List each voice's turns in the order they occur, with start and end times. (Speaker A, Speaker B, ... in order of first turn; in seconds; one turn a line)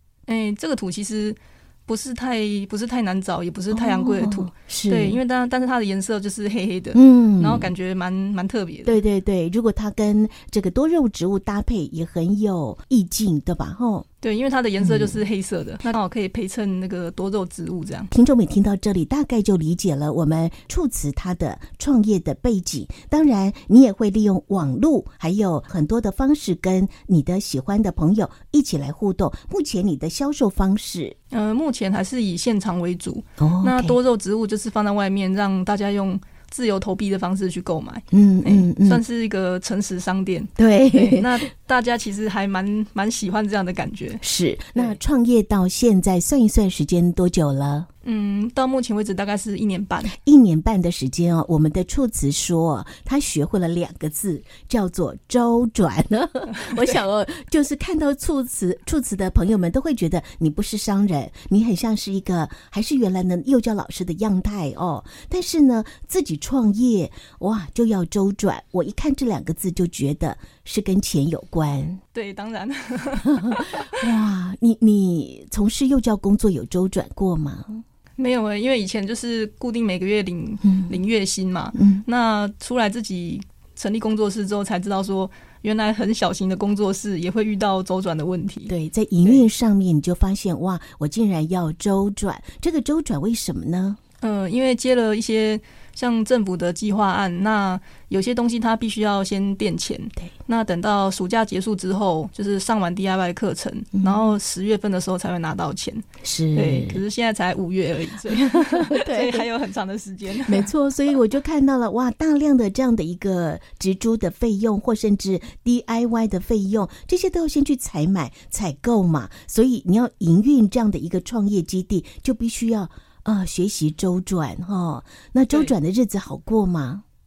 Speaker A: 0.3-9.0
Speaker B: 3.7-5.2
Speaker B: 6.9-7.7
Speaker B: 8.8-14.1
Speaker A: 14.2-18.1
Speaker B: 14.8-15.2
Speaker B: 18.1-31.1
Speaker A: 31.3-44.2
Speaker B: 33.4-34.0
Speaker B: 38.1-39.0
Speaker B: 40.6-41.5
Speaker B: 44.2-47.9
Speaker A: 48.0-50.1
Speaker B: 50.1-72.0
Speaker A: 56.5-56.9
Speaker A: 72.1-74.2
Speaker B: 73.3-77.8
Speaker A: 78.2-89.5
Speaker B: 80.6-80.9
Speaker B: 81.7-82.0
Speaker B: 88.7-94.0
Speaker A: 94.2-110.7
Speaker B: 103.9-104.3
Speaker B: 106.2-107.0
Speaker B: 108.3-109.5
Speaker B: 110.3-127.0